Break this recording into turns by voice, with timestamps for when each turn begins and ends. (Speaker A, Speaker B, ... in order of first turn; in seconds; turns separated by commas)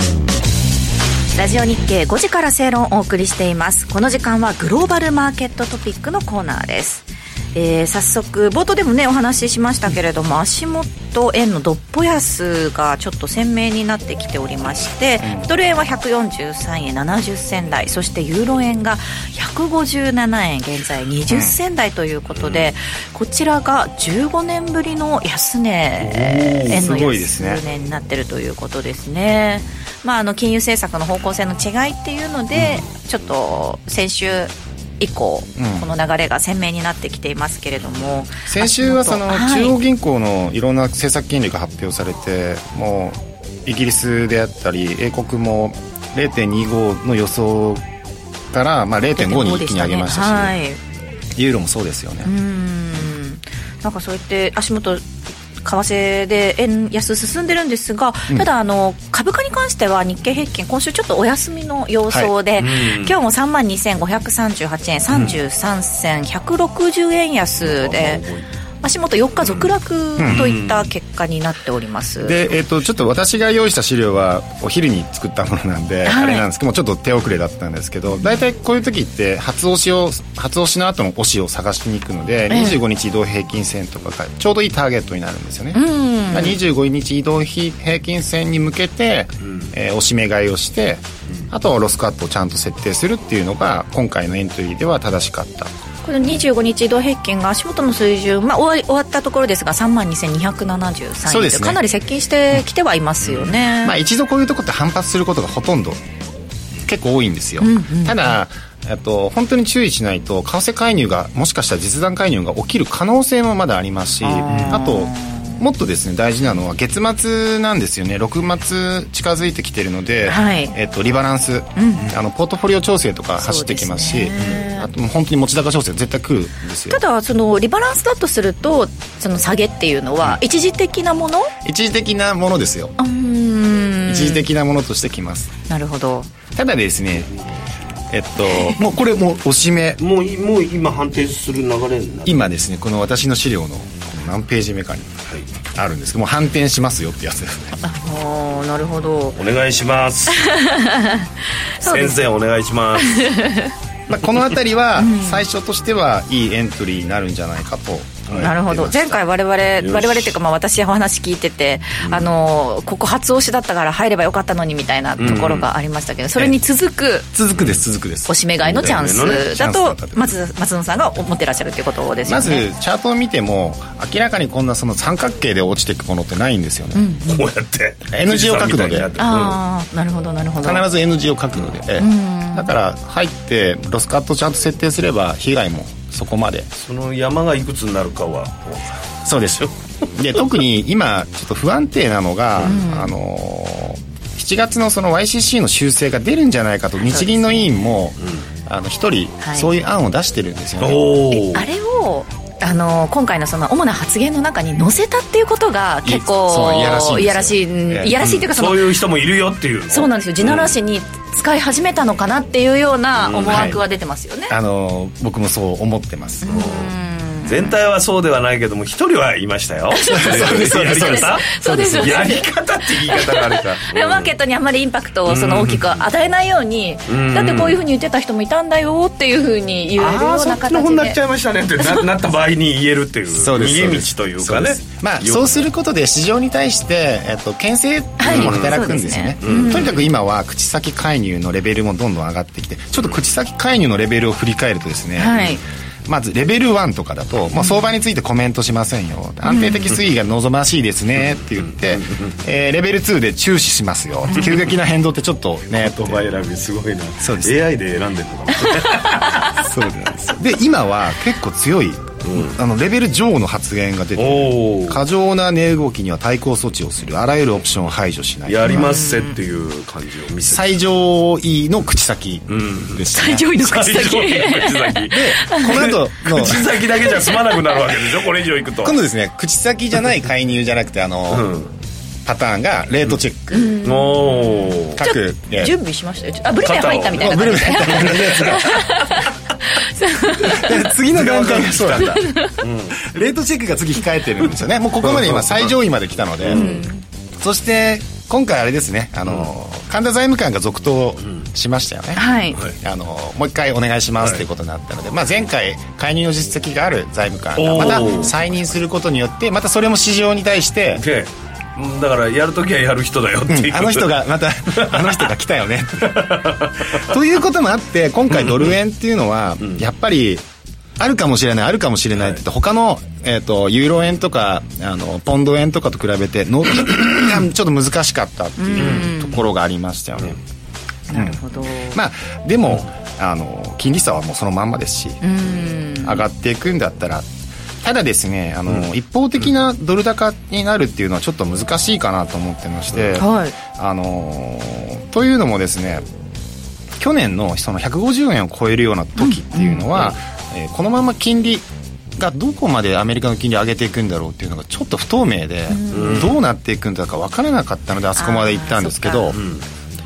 Speaker A: 1.3-39.8, Speaker B: 15.2-15.5, Speaker B: 21.3-21.6, Speaker C: 22.4-22.7, Speaker C: 26.0-26.8, Speaker B: 26.7-27.6, Speaker B: 35.6-35.9, Speaker B: 38.4-47.8, Speaker B: 48.5-50.6, Speaker A: 49.1-50.8, Speaker B: 51.3-52.3, Speaker A: 52.2-55.0, Speaker A: 55.6-68.2, Speaker C: 62.6-63.1, Speaker C: 67.6-68.5, Speaker A: 68.8-72.4, Speaker B: 70.2-70.5, Speaker C: 70.3-70.9, Speaker B: 72.2-95.7, Speaker A: 76.0-76.4, Speaker A: 82.5-82.8, Speaker A: 85.7-86.6, Speaker A: 96.0-104.0, Speaker B: 101.2-101.8, Speaker C: 103.2-103.5, Speaker B: 103.8-106.0, Speaker B: 106.8-127.0, Speaker A: 107.6-108.4, Speaker A: 114.2-115.6, Speaker C: 114.5-114.8, Speaker A: 120.3-120.7, Speaker A: 121.8-122.1, Speaker A: 123.4-124.9, Speaker A: 126.9-131.5, Speaker B: 131.6-132.9, Speaker A: 133.0-134.5, Speaker B: 134.1-135.5, Speaker A: 135.7-136.3, Speaker B: 136.5-137.3, Speaker B: 138.1-140.0, Speaker C: 140.0-142.5, Speaker B: 142.2-145.1, Speaker B: 145.7-147.8, Speaker A: 147.8-149.4, Speaker C: 149.3-150.5, Speaker A: 150.3-151.3, Speaker A: 151.8-152.2, Speaker C: 151.8-153.3, Speaker A: 153.0-153.7, Speaker B: 154.1-159.2, Speaker A: 155.0-155.4, Speaker A: 158.3-167.3, Speaker C: 159.8-160.3, Speaker C: 165.2-165.7, Speaker B: 167.3-170.3, Speaker C: 167.5-167.8, Speaker A: 168.3-172.7, Speaker C: 168.6-169.4, Speaker B: 172.2-177.1, Speaker A: 176.9-177.5, Speaker C: 177.3-179.6, Speaker B: 178.1-179.1, Speaker A: 179.2-180.8, Speaker B: 180.6-186.7, Speaker A: 182.0-182.7, Speaker C: 186.8-188.9, Speaker B: 189.2-201.1, Speaker A: 192.6-193.1, Speaker A: 197.0-197.7, Speaker A: 199.4-199.7, Speaker C: 200.8-201.7, Speaker A: 201.3-208.9, Speaker B: 206.0-208.1, Speaker C: 208.2-210.7, Speaker A: 209.9-214.5, Speaker C: 213.2-213.7, Speaker B: 213.4-213.8, Speaker B: 214.5-216.4, Speaker A: 216.4-217.8, Speaker C: 216.4-216.9, Speaker C: 217.4-221.5, Speaker A: 219.9-222.4, Speaker B: 220.1-222.4, Speaker C: 222.0-224.3, Speaker A: 223.1-231.2, Speaker C: 225.3-226.0, Speaker C: 227.1-227.8, Speaker C: 230.0-235.6, Speaker B: 233.3-256.3, Speaker A: 238.2-240.0, Speaker C: 238.2-238.8, Speaker C: 239.4-239.9, Speaker A: 245.2-245.6, Speaker A: 249.4-249.9, Speaker C: 251.6-252.3, Speaker C: 255.7-259.5, Speaker B: 257.2-257.6, Speaker B: 259.5-268.9, Speaker C: 262.2-262.6, Speaker C: 264.1-265.0, Speaker C: 268.5-270.7, Speaker A: 268.7-269.4, Speaker B: 270.5-273.5, Speaker C: 272.5-273.0, Speaker A: 273.1-275.7, Speaker C: 273.6-279.0, Speaker B: 275.1-276.8, Speaker B: 278.8-281.5, Speaker C: 281.3-281.7, Speaker B: 282.2-283.8, Speaker A: 283.5-290.7, Speaker C: 283.8-285.0, Speaker B: 284.9-285.7, Speaker C: 286.6-288.6, Speaker B: 287.1-288.9, Speaker B: 290.4-292.3, Speaker C: 291.1-293.0, Speaker A: 292.1-292.6, Speaker B: 293.0-296.8, Speaker C: 295.0-295.7, Speaker C: 296.4-296.8, Speaker A: 296.5-297.0, Speaker B: 297.4-311.0, Speaker A: 302.1-302.6, Speaker C: 307.6-308.3, Speaker A: 308.0-308.3, Speaker C: 311.0-315.3, Speaker B: 313.5-320.4, Speaker C: 316.0-317.0, Speaker C: 318.4-318.7, Speaker B: 321.0-330.4, Speaker A: 328.6-329.4, Speaker C: 328.8-329.1, Speaker A: 331.1-331.9, Speaker B: 331.1-331.4, Speaker B: 331.9-335.2, Speaker A: 335.2-336.2, Speaker B: 336.0-337.3, Speaker B: 337.8-346.1, Speaker A: 343.2-343.6, Speaker B: 347.0-351.6, Speaker A: 349.2-349.9, Speaker B: 352.2-359.4, Speaker A: 355.7-356.3, Speaker C: 355.9-356.4, Speaker A: 358.1-359.4, Speaker C: 359.3-359.6